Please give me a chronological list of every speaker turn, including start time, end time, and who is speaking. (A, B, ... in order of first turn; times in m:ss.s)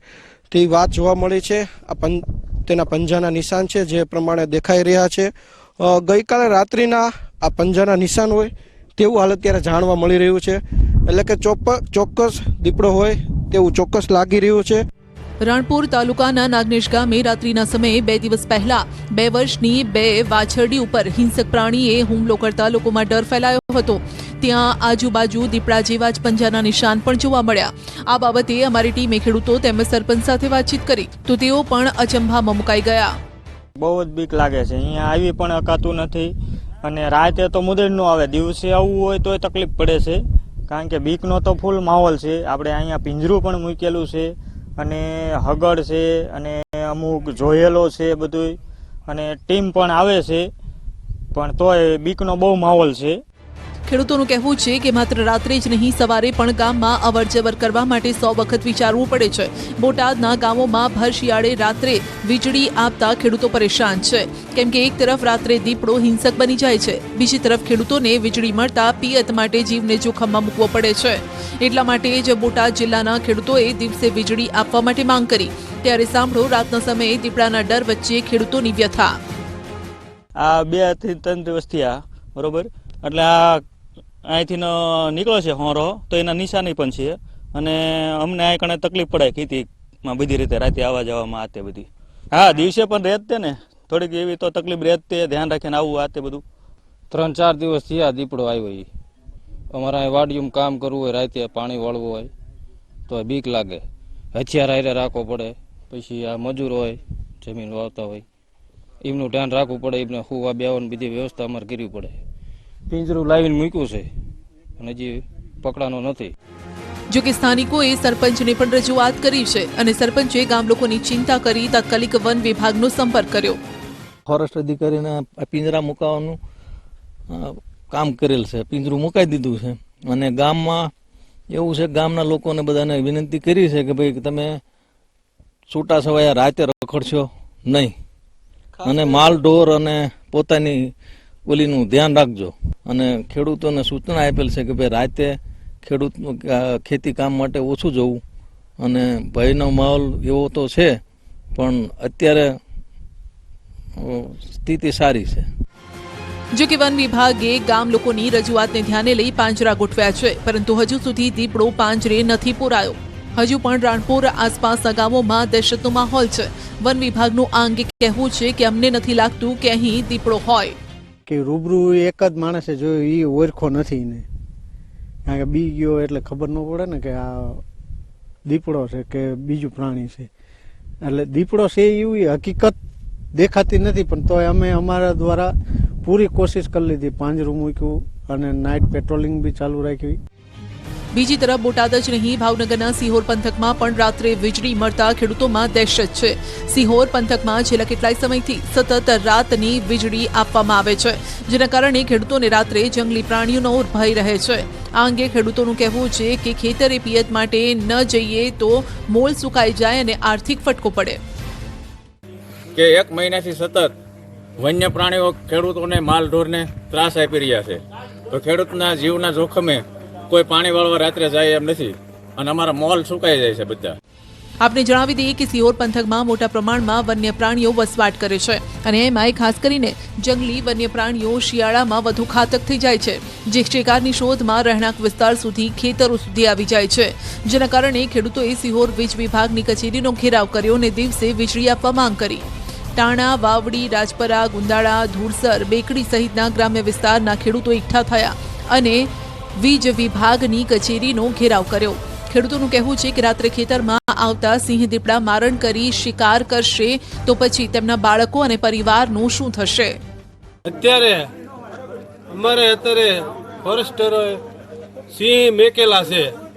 0:00.5-0:14.8 A
0:15.4-0:33.2 B
0:33.8-0:48.6 C
0:49.1-0:50.5 C
0:51.3-0:53.2 C
0:53.9-1:19.2 B
1:20.4-1:23.6 C
1:24.2-1:36.4 C
1:37.1-1:38.9 D
1:39.7-1:42.3 D
1:43.1-1:43.8 D
1:44.3-1:48.2 D
1:49.0-1:52.2 D
1:52.9-1:54.1 D
1:54.8-1:56.3 D
1:57.1-2:03.6 B
2:04.2-2:06.4 E
2:07.3-2:10.9 E
2:11.5-2:14.6 E
2:15.7-2:17.9 E
2:18.8-2:20.9 E
2:21.4-2:28.2 E
2:28.8-2:31.0 E
2:31.6-2:32.6 E
2:34.0-2:35.5 E
2:36.5-2:50.8 B
2:51.3-2:54.2 F
2:55.3-2:57.6 F
2:58.4-3:00.3 F
3:01.0-3:02.8 F
3:03.3-3:10.2 F
3:11.1-3:31.2 B
3:32.7-3:33.9 G
3:34.6-3:44.0 G
3:44.6-4:20.0 B
4:20.6-4:21.3 H
4:22.3-4:24.4 H
4:25.1-4:26.3 H